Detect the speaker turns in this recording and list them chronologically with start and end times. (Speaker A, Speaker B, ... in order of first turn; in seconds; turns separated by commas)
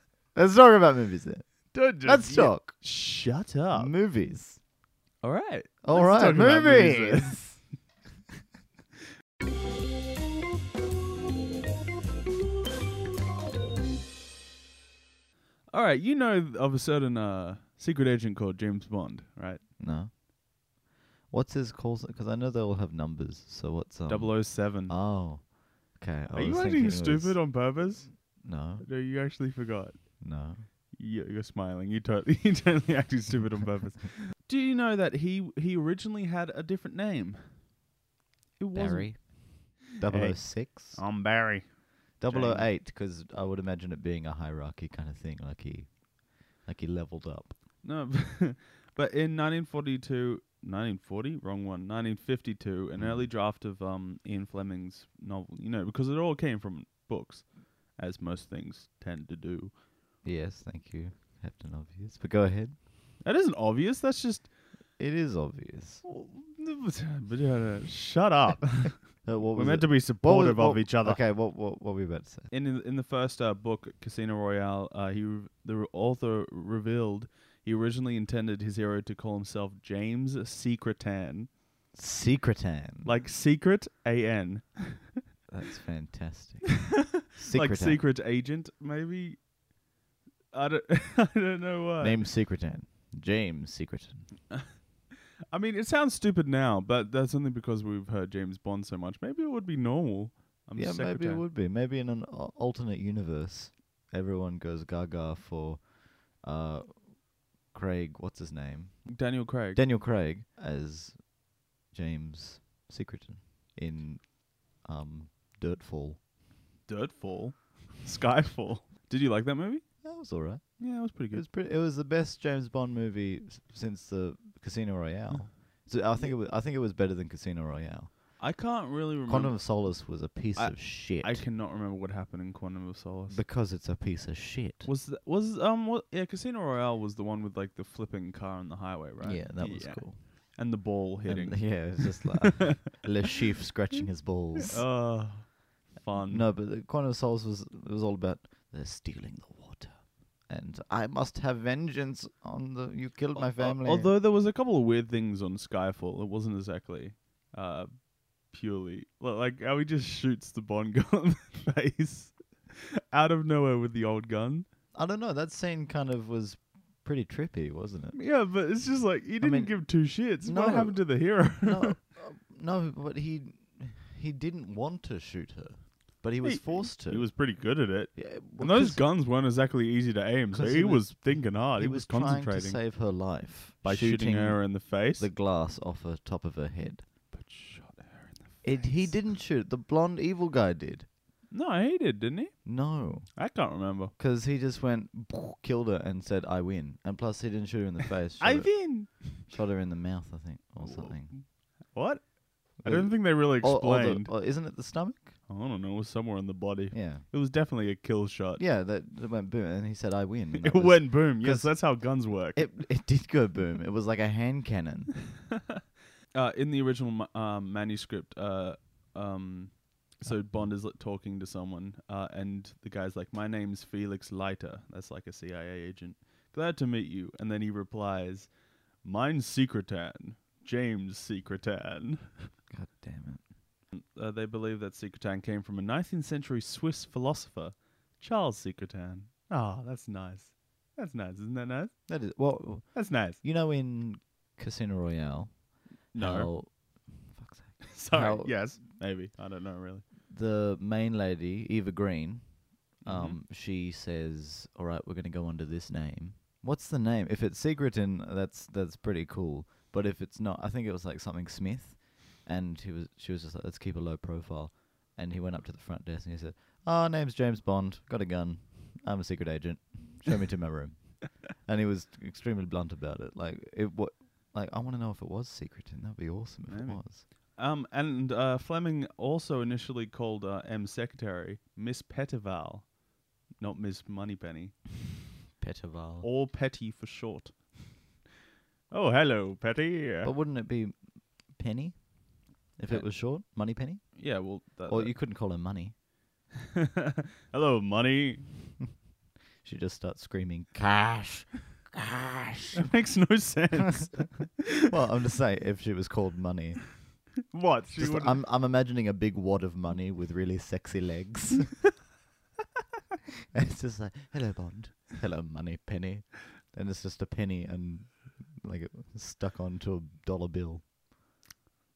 Speaker A: 0.3-2.7, Speaker B: 1.7-3.9, Speaker A: 3.7-4.6, Speaker B: 5.2-7.4, Speaker A: 5.8-7.6, Speaker B: 15.7-19.6, Speaker A: 19.8-20.1, Speaker A: 21.3-28.9, Speaker B: 24.1-24.9, Speaker B: 26.3-30.2, Speaker A: 30.2-30.6, Speaker B: 30.9-37.4, Speaker B: 38.6-39.3, Speaker A: 38.7-41.1, Speaker B: 40.0-42.7, Speaker A: 42.2-47.5, Speaker B: 47.8-59.8, Speaker A: 52.9-53.3, Speaker A: 60.2-62.8, Speaker B: 63.2-64.5, Speaker A: 65.0-66.0, Speaker B: 66.0-71.2, Speaker A: 69.2-72.5, Speaker B: 72.5-81.5, Speaker A: 81.9-83.1, Speaker B: 83.0-85.1, Speaker A: 85.5-88.0, Speaker B: 87.4-89.4, Speaker B: 90.5-92.2, Speaker A: 92.0-94.4, Speaker B: 95.5-101.4, Speaker A: 100.8-116.2, Speaker B: 109.1-109.8, Speaker B: 116.9-119.9, Speaker A: 120.0-128.4, Speaker B: 120.8-121.4, Speaker B: 128.4-133.4, Speaker A: 129.3-131.5, Speaker A: 133.3-134.9, Speaker B: 134.8-142.4, Speaker A: 139.2-140.6, Speaker A: 141.2-144.9, Speaker B: 144.7-146.5, Speaker A: 146.2-154.1, Speaker B: 153.3-164.7, Speaker A: 164.9-168.2, Speaker B: 168.1-171.9, Speaker A: 169.4-179.1, Speaker B: 176.4-182.8, Speaker A: 180.5-187.1, Speaker B: 183.8-185.3, Speaker B: 187.3-189.2, Speaker A: 188.6-191.1, Speaker B: 191.5-194.1, Speaker A: 192.6-193.5, Speaker A: 194.2-201.4, Speaker B: 198.4-199.5, Speaker B: 200.8-204.3, Speaker A: 202.8-205.3, Speaker B: 205.5-208.6, Speaker A: 206.9-207.2, Speaker A: 208.6-215.2, Speaker B: 210.5-212.8, Speaker B: 216.3-232.5, Speaker A: 220.2-220.7, Speaker A: 232.7-233.4, Speaker B: 233.9-242.1, Speaker A: 242.1-248.7, Speaker B: 242.9-243.4, Speaker B: 246.1-246.5, Speaker B: 247.9-250.0, Speaker A: 250.3-277.2, Speaker B: 253.0-253.4, Speaker B: 276.7-283.0, Speaker B: 283.5-284.8, Speaker A: 285.6-286.3, Speaker B: 286.2-288.0, Speaker B: 288.9-290.3, Speaker A: 290.2-295.9, Speaker B: 294.1-295.2, Speaker B: 297.5-298.5, Speaker A: 299.6-302.8, Speaker B: 302.8-304.5, Speaker A: 304.8-307.2, Speaker B: 307.5-308.4, Speaker A: 307.9-311.9, Speaker A: 313.5-320.8